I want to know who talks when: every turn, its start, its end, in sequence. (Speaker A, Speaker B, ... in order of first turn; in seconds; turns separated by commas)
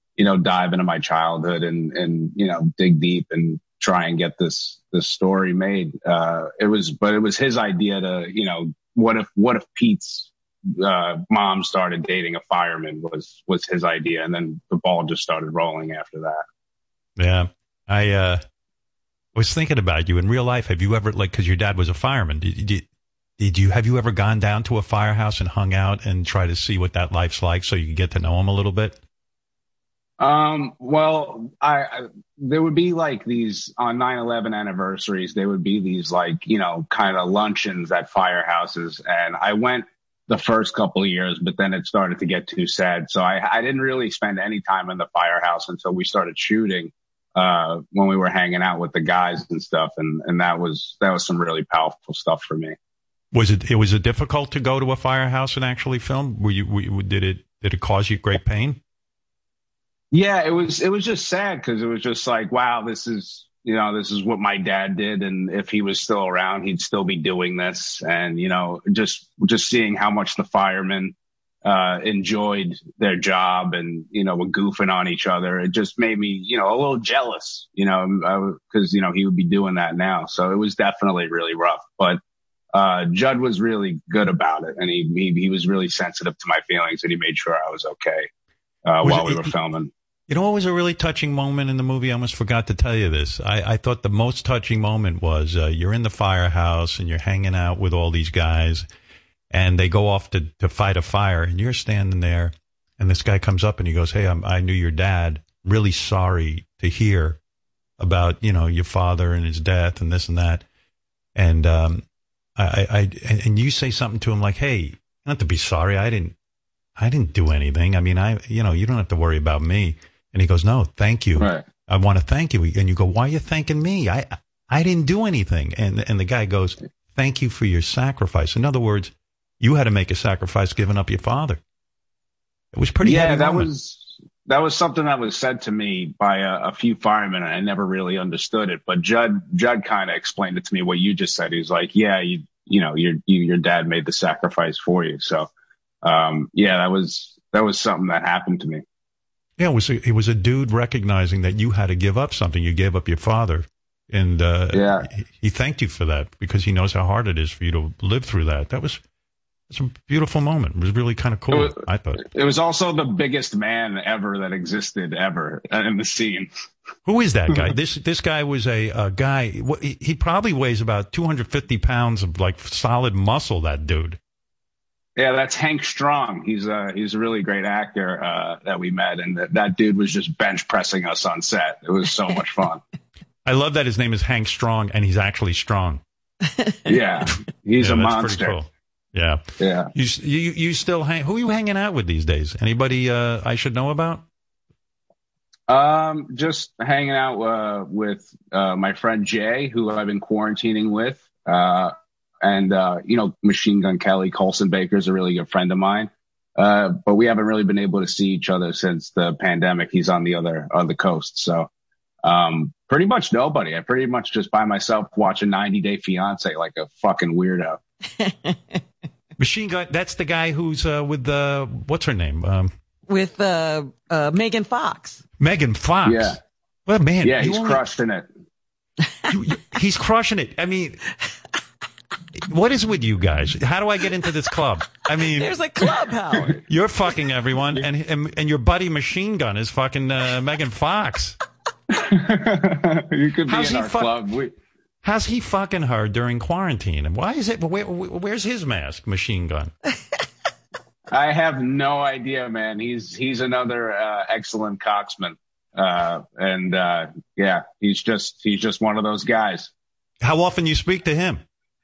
Speaker A: 0.2-16.4, Speaker B: 17.2-18.4, Speaker B: 19.4-22.9, Speaker B: 23.4-29.0, Speaker A: 30.2-52.8, Speaker B: 53.3-58.8, Speaker A: 60.1-82.2, Speaker A: 82.7-88.3, Speaker A: 88.8-89.9, Speaker B: 89.0-89.5, Speaker B: 90.3-98.9, Speaker B: 99.5-107.4, Speaker B: 108.0-110.6, Speaker B: 111.3-112.0, Speaker B: 112.6-116.3, Speaker B: 117.0-131.6, Speaker A: 121.4-121.7, Speaker B: 132.7-133.7, Speaker A: 133.0-145.5, Speaker A: 146.0-148.8, Speaker B: 149.6-159.0, Speaker A: 154.7-155.1, Speaker B: 159.7-162.2, Speaker A: 161.5-166.5, Speaker B: 167.1-174.2, Speaker A: 175.2-182.8, Speaker B: 183.4-186.0, Speaker C: 186.5-186.8, Speaker A: 186.9-188.6, Speaker B: 187.8-194.2, Speaker A: 189.6-189.9, Speaker A: 195.7-211.7, Speaker A: 212.2-217.8, Speaker C: 218.2-218.8, Speaker B: 219.4-222.7, Speaker C: 223.1-225.2, Speaker B: 225.4-227.8, Speaker A: 226.1-226.4, Speaker A: 227.2-228.3, Speaker B: 229.3-231.0, Speaker B: 232.4-235.6, Speaker C: 235.2-236.6, Speaker B: 236.7-241.4, Speaker A: 241.9-244.6, Speaker B: 243.5-244.2, Speaker B: 245.0-249.7, Speaker A: 251.1-259.7, Speaker B: 260.2-261.4